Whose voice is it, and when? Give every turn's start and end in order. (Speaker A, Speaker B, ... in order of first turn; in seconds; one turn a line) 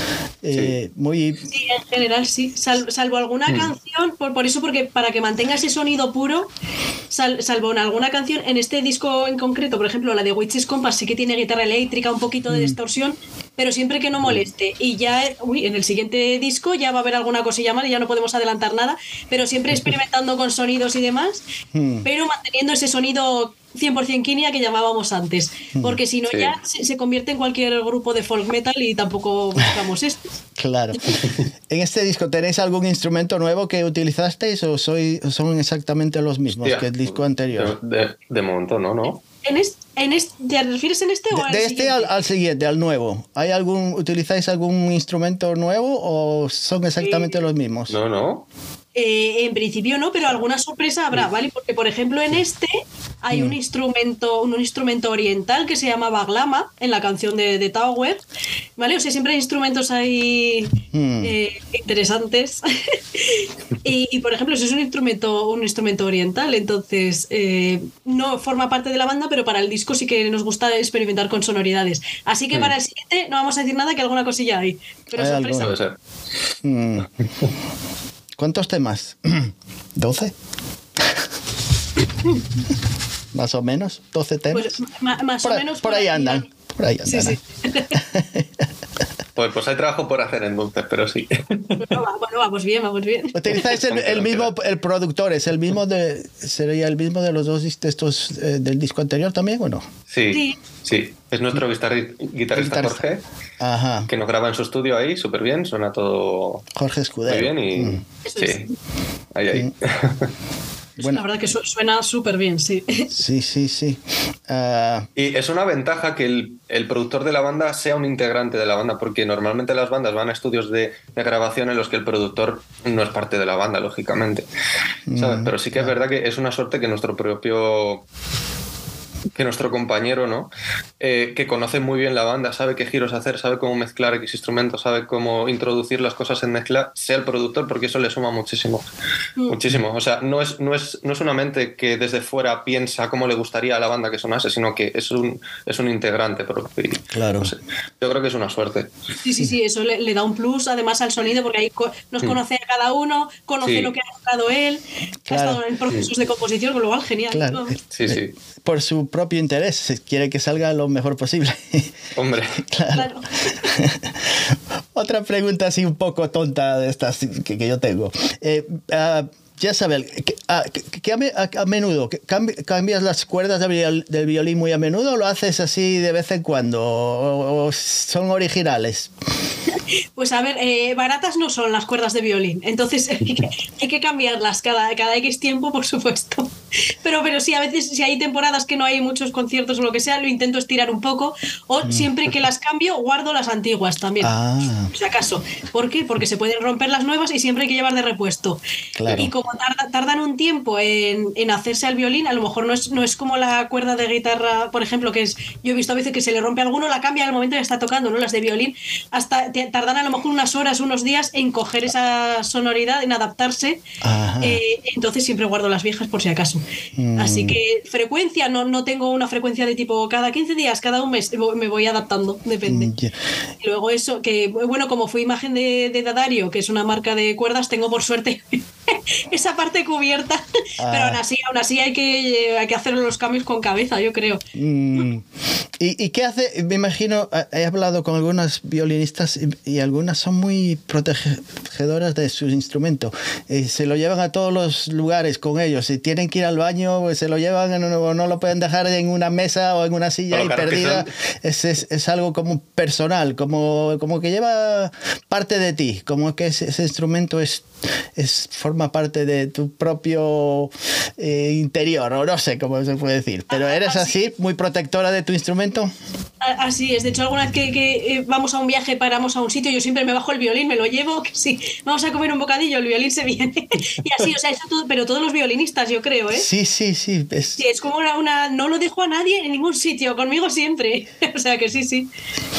Speaker A: 0.4-1.5
Speaker B: 1.5-6.5
Speaker B: 7.1-21.4
Speaker A: 12.5-12.7
Speaker A: 21.7-22.1
Speaker B: 22.0-30.2
Speaker A: 25.7-26.0
Speaker C: 26.3-26.6
Speaker A: 30.6-37.8
Speaker C: 36.6-39.2
Speaker B: 39.4-42.1
Speaker A: 41.3-48.0
Speaker B: 47.0-47.3
Speaker C: 47.9-48.5
Speaker B: 49.0-58.2
Speaker B: 58.8-75.7
Speaker A: 60.9-61.3
Speaker A: 75.1-75.7
Speaker C: 75.5-75.9
Speaker A: 76.6-77.1
Speaker A: 78.4-80.3
Speaker A: 83.3-84.8
Speaker B: 84.5-86.5
Speaker A: 85.4-87.4
Speaker B: 87.0-88.0
Speaker A: 87.9-88.7
Speaker C: 89.3-91.9
Speaker B: 91.8-93.7
Speaker A: 93.3-99.9
Speaker C: 93.5-94.5
Speaker C: 100.1-103.2
Speaker B: 100.3-100.6
Speaker A: 102.5-103.0
Speaker A: 103.6-104.1
Speaker C: 104.1-106.7
Speaker A: 106.7-108.0
Speaker C: 107.3-108.7
Speaker B: 108.2-108.6
Speaker C: 109.3-110.3
Speaker B: 111.0-113.1
Speaker A: 113.1-115.1
Speaker C: 115.2-124.5
Speaker A: 125.1-125.9
Speaker C: 125.2-128.0
Speaker C: 129.3-138.9
Speaker C: 139.5-148.9
Speaker A: 147.1-147.5
Speaker B: 149.2-157.8
Speaker C: 153.6-153.9
Speaker A: 155.3-155.6
Speaker A: 157.3-162.1
Speaker C: 157.9-158.3
Speaker C: 162.2-162.6
Speaker A: 162.6-179.1
Speaker B: 162.9-163.3
Speaker B: 180.2-194.3
Speaker A: 191.8-192.1
Speaker A: 194.2-194.9
Speaker B: 194.9-213.8
Speaker A: 198.9-199.3
Speaker A: 214.0-214.6
Speaker B: 214.4-216.6
Speaker A: 217.0-217.6
Speaker B: 217.2-222.9
Speaker A: 222.7-223.2
Speaker B: 223.6-234.4
Speaker A: 230.8-231.2
Speaker A: 234.5-235.2
Speaker A: 235.8-265.9
Speaker C: 250.3-251.1
Speaker B: 263.5-264.2
Speaker B: 266.4-276.5
Speaker A: 276.3-277.6
Speaker B: 277.6-282.1